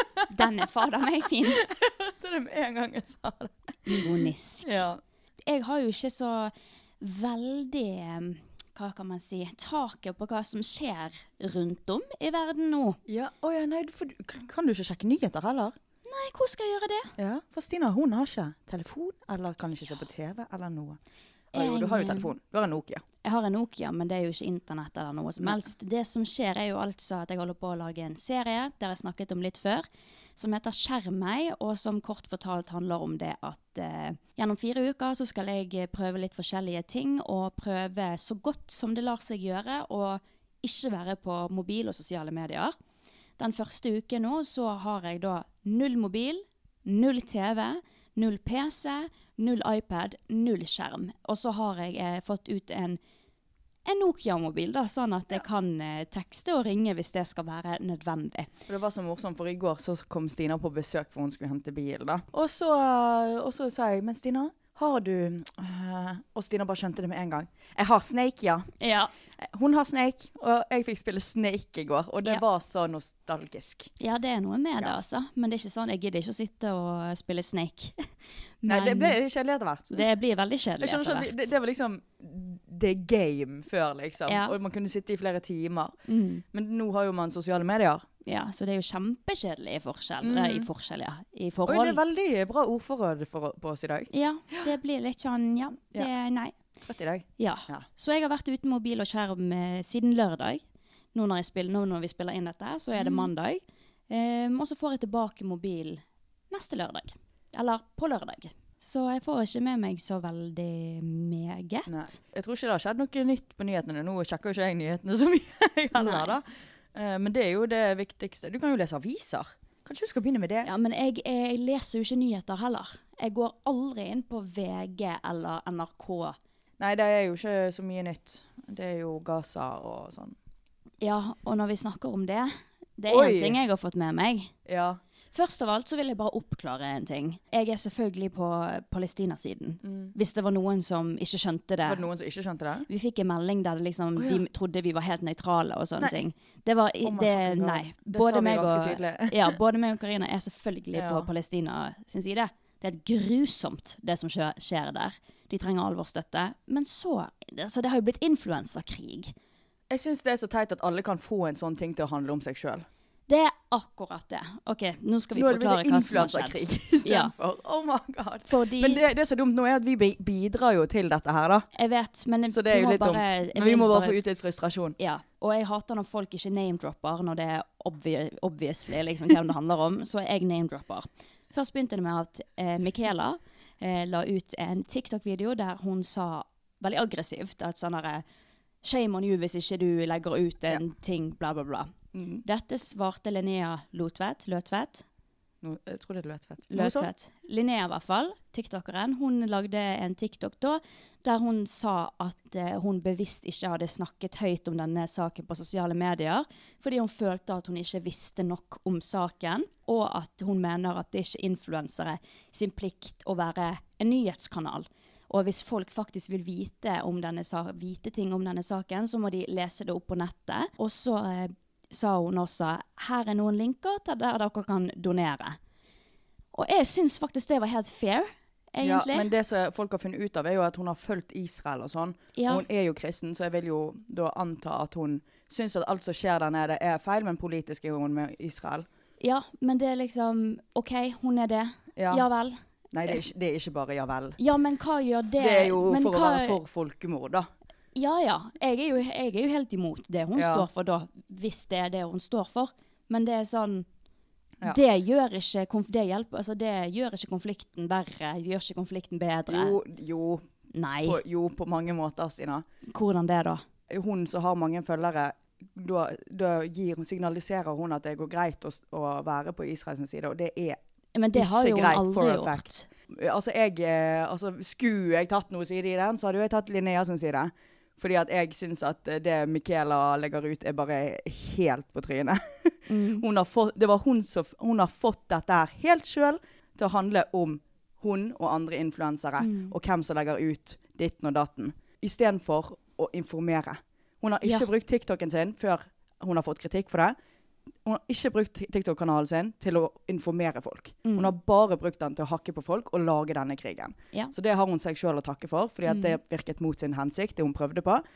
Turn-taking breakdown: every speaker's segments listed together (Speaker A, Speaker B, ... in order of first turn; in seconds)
Speaker A: 0.3-1.6, 3.9-4.8, 5.4-13.0, 16.1-17.1, 21.5-22.3, 23.2-29.8, 30.4-42.7, 43.4-53.0, 53.9-58.5, 68.8-69.1, 74.0-78.1, 78.6-79.2, 79.9-81.5, 84.3-84.5, 86.1-86.4, 88.2-92.0, 94.1-96.5, 97.4-100.6, 101.1-112.2, 115.9-116.3, 120.6-126.4, 131.0-134.5, 135.3-142.0, 142.9-159.3, 163.3-167.3, 168.5-169.0, 171.7-174.2, 175.0-188.2, 188.8-191.9, 192.4-195.0, 196.7-225.6, 226.5-229.3, 232.3-232.6, 239.2-243.2, 244.4-246.6, 247.9-253.8, 254.6-259.8, 260.7-261.2, 262.9-263.6, 271.1-272.9, 282.9-283.2, 289.4-289.7, 294.4-294.7, 301.0-301.3, 305.9-306.2
Speaker B: 1.5-5.0, 13.1-15.7, 17.2-21.0, 21.5-23.0, 58.7-68.7, 69.4-73.9, 78.7-80.0, 80.8-86.0, 86.5-88.0, 90.2-90.7, 91.7-94.7, 96.8-97.9, 103.0-103.3, 111.9-120.7, 126.8-130.3, 133.1-133.6, 134.7-135.0, 139.8-140.1, 141.8-142.9, 144.2-144.4, 147.0-149.6, 150.9-151.3, 159.9-162.8, 165.3-171.7, 172.5-175.0, 192.1-192.4, 195.6-197.1, 228.8-238.9, 242.0-242.2, 242.9-244.4, 245.4-247.5, 250.3-250.7, 259.5-260.4, 261.0-262.6, 263.9-270.8, 271.3-297.1, 297.8-308.0